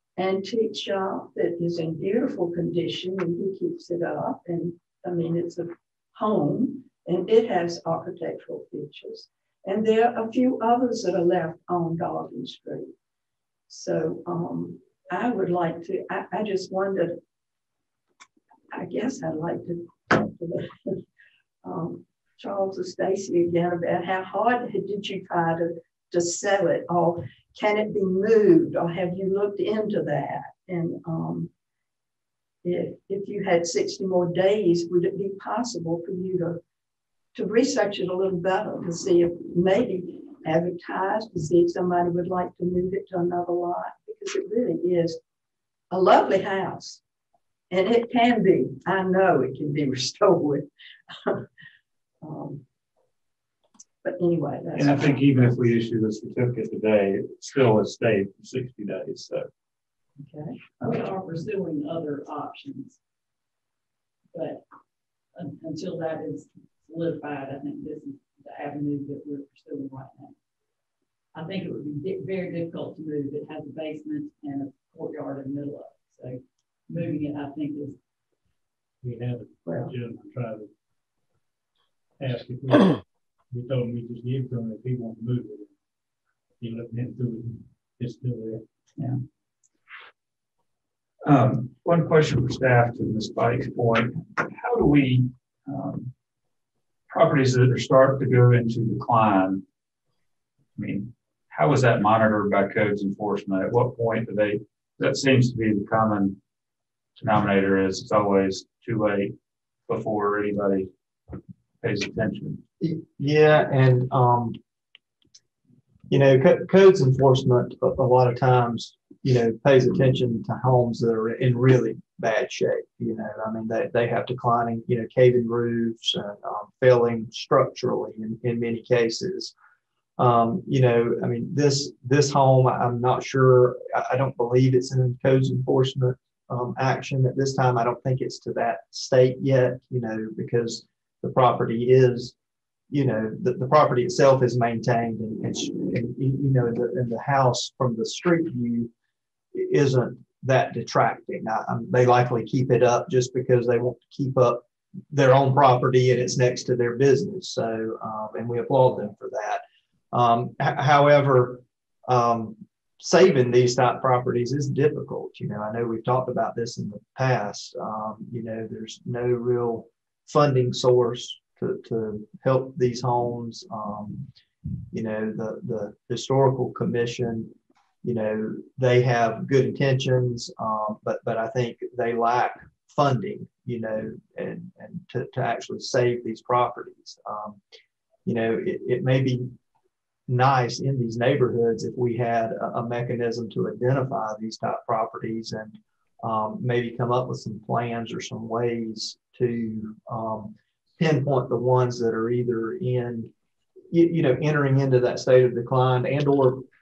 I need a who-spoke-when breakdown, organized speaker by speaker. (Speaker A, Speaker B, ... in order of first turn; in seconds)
Speaker A: 0.2-12.9, 13.7-17.2, 18.7-21.0, 21.6-31.5, 32.6-36.6, 37.3-45.2, 45.9-47.0, 47.7-51.5, 52.2-52.6, 54.0-55.5, 60.2-60.6, 79.7-80.0
Speaker B: 54.7-59.5, 60.8-61.1, 91.2-96.1, 97.1-99.6, 100.8-106.4, 107.2-109.3, 109.9-110.9, 111.8-112.6
Speaker C: 60.8-63.0, 64.3-64.6, 65.3-70.3, 71.3-78.0
Speaker D: 79.0-80.7, 82.2-82.9, 83.5-85.7, 86.6-88.6
Speaker E: 112.8-114.6, 116.1-129.5, 130.2-142.3, 142.9-148.9, 149.5-174.3, 174.9-187.6, 188.3-189.5, 190.3-203.3, 203.9-206.7